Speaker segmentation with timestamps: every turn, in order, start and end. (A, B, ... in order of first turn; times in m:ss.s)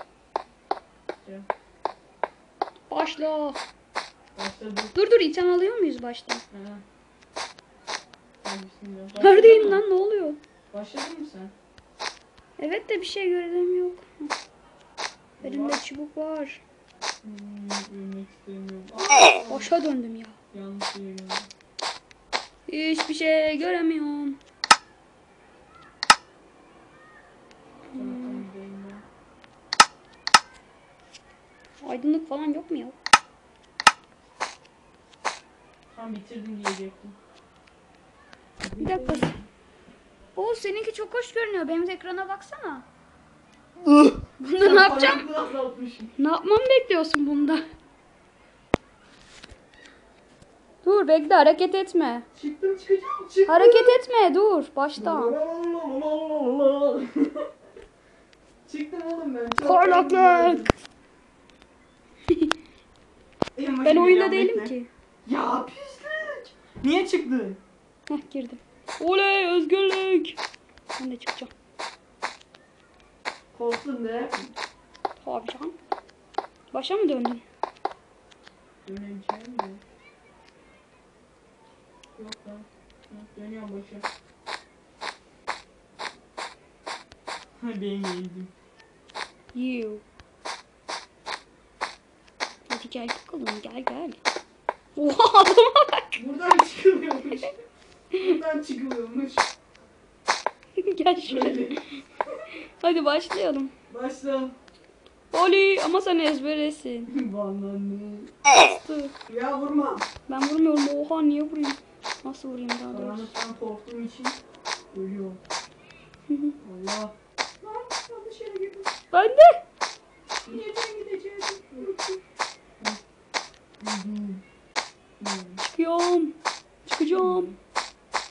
0:02.9-0:03.6 A
0:04.4-0:05.0 B
0:04.9-0:06.4 A
0:06.5-0:06.8 B
0:08.4-0:09.8 B
0:09.2-0:10.4 A
0:10.7-0:11.5 B
0:12.6-0:14.3 A
0:15.4-0:15.8 B
0:15.4-0:16.6 A
0:17.2-0:19.7 B
0:19.5-0:20.4 A
0:20.5-0:21.5 B
0:22.7-0:24.4 A
0:27.9-0:28.4 A
0:27.9-0:29.0 B
0:31.8-0:33.0 A
0:35.9-0:37.2 B
0:38.6-0:39.4 B
0:38.8-0:39.3 A
0:40.4-0:42.8 A
0:43.8-0:46.1 B
0:44.4-0:45.3 A
0:46.2-0:47.6 A
0:50.8-0:52.2 A
0:52.3-0:54.0 B
0:53.5-0:55.4 A
0:55.0-0:57.4 B
0:58.6-1:00.7 B
0:59.6-1:00.7 A
1:02.3-1:02.5 A
1:03.5-1:04.7 B
1:03.8-1:04.9 A
1:05.2-1:07.6 B
1:08.1-1:10.4 A
1:11.0-1:11.5 A
1:13.5-1:14.5 B
1:15.2-1:15.8 A
1:16.7-1:17.4 A
1:18.8-1:19.8 B
1:22.2-1:24.1 B
1:27.6-1:28.5 B
1:29.5-1:30.0 A
1:32.7-1:34.2 A
1:35.0-1:36.2 A
1:36.2-1:37.5 B
1:38.1-1:39.5 B
1:40.8-1:42.0 A
1:41.2-1:41.9 B
1:42.8-1:43.7 A
1:43.9-1:44.5 B
1:45.3-1:47.1 A
1:47.1-1:48.3 B
1:48.5-1:49.1 A
1:49.3-1:50.0 B
1:50.3-1:53.3 A
1:52.9-1:54.4 B
1:54.9-1:55.4 B
1:56.3-1:56.6 A
1:56.6-1:58.9 B
1:59.1-1:59.6 A
2:00.4-2:02.2 B
2:03.8-2:04.4 B
2:05.2-2:05.6 B
2:05.6-2:07.5 A
2:07.1-2:07.6 B